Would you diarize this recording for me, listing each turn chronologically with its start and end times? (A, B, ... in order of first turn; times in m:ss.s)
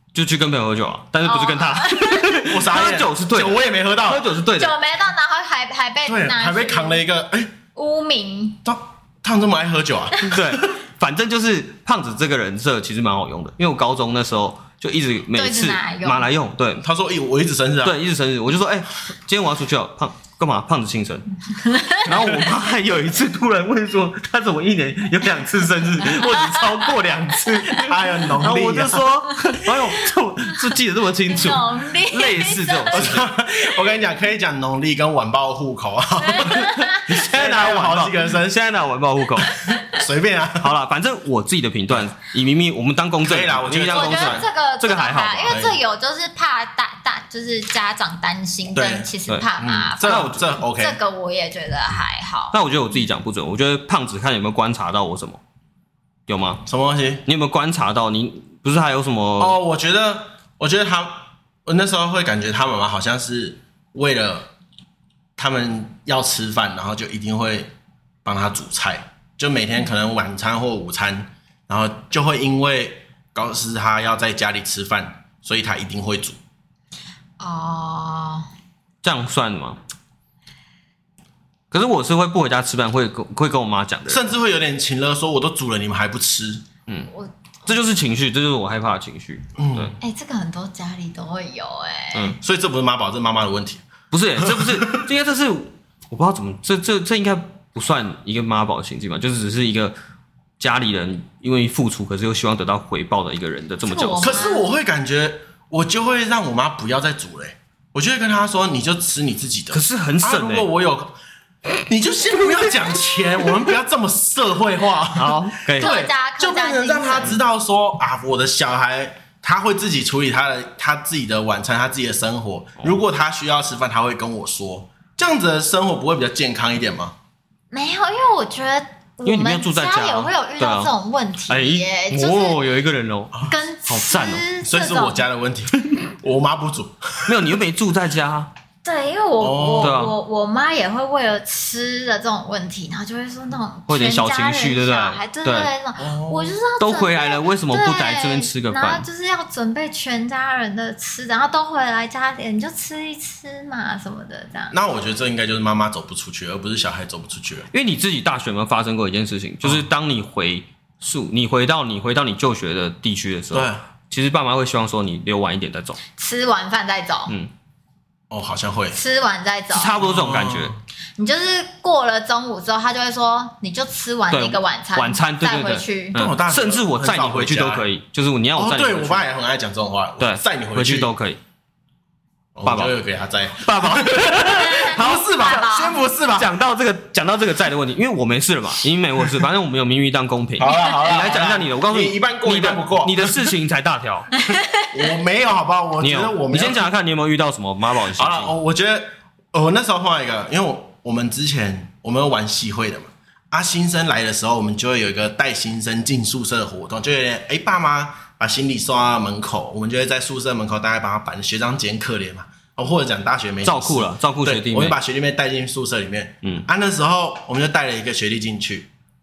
0:00.1-0:04.8 A
0:01.2-0:02.4 B
0:02.4-0:04.3 C
0:04.6-0:07.0 B
0:06.0-0:07.5 C
0:07.8-0:08.6 B
0:08.6-0:10.8 C
0:10.2-0:16.8 A
0:15.3-0:16.3 B
0:16.8-0:18.0 C
0:17.8-0:21.3 A
0:21.5-0:22.4 B
0:22.0-0:33.3 A
0:26.0-0:26.8 B
0:27.8-0:29.1 C
0:31.3-0:33.1 B
0:32.9-0:38.7 C
0:36.2-0:37.1 B
0:36.5-0:39.6 A
0:39.7-0:40.8 C
0:40.6-0:45.6 A
0:43.2-0:44.5 C
0:43.9-0:52.6 B
0:45.5-0:45.8 C
0:48.7-0:51.0 C
0:50.0-0:50.4 A
0:52.5-0:55.4 A
0:56.3-0:56.6 A
0:56.7-0:57.2 C
0:57.3-0:59.6 A
0:59.4-1:04.5 C
1:05.4-1:07.7 C
1:08.2-1:16.4 C
1:17.4-1:18.5 B
1:19.0-1:19.8 A
1:21.7-1:24.2 A
1:24.1-1:26.6 C
1:27.7-1:30.0 A
1:29.6-1:30.0 C
1:30.0-1:32.4 B
1:32.4-1:33.8 C
1:34.1-1:40.0 A
1:34.4-1:35.0 C
1:40.6-1:44.5 A
1:43.8-1:44.7 B
1:44.2-1:51.1 C
1:49.7-1:50.7 A
1:51.7-2:07.2 C
1:55.2-1:56.0 A
1:55.8-1:57.4 B
2:07.7-2:12.6 B
2:09.2-2:10.9 A
2:11.5-2:14.4 A
2:13.5-2:15.2 B
2:14.6-2:17.4 C
2:17.3-2:18.5 A
2:18.8-2:34.8 B
2:19.4-2:20.0 C
2:19.8-2:20.2 A
2:23.9-2:25.7 A
2:26.0-2:26.5 C
2:26.8-2:29.1 A
2:34.7-2:37.7 C
2:37.7-2:46.0 A
2:43.5-2:43.8 C
2:46.2-2:47.4 B
2:48.3-2:49.0 C
2:48.9-2:49.9 B
2:49.7-2:50.8 A
2:50.0-2:50.8 C
2:51.2-2:56.2 B
2:54.3-2:59.3 A
2:56.2-2:57.9 C
2:58.6-3:01.1 C
3:00.2-3:01.4 A
3:02.6-3:06.5 C
3:02.6-3:02.9 A
3:03.6-3:05.7 A
3:04.6-3:06.0 B
3:06.4-3:14.3 A
3:10.6-3:13.5 C
3:10.6-3:11.0 B
3:14.4-3:14.9 B
3:14.9-3:16.9 C
3:16.0-3:18.5 A
3:18.1-3:38.9 C
3:33.6-3:35.0 A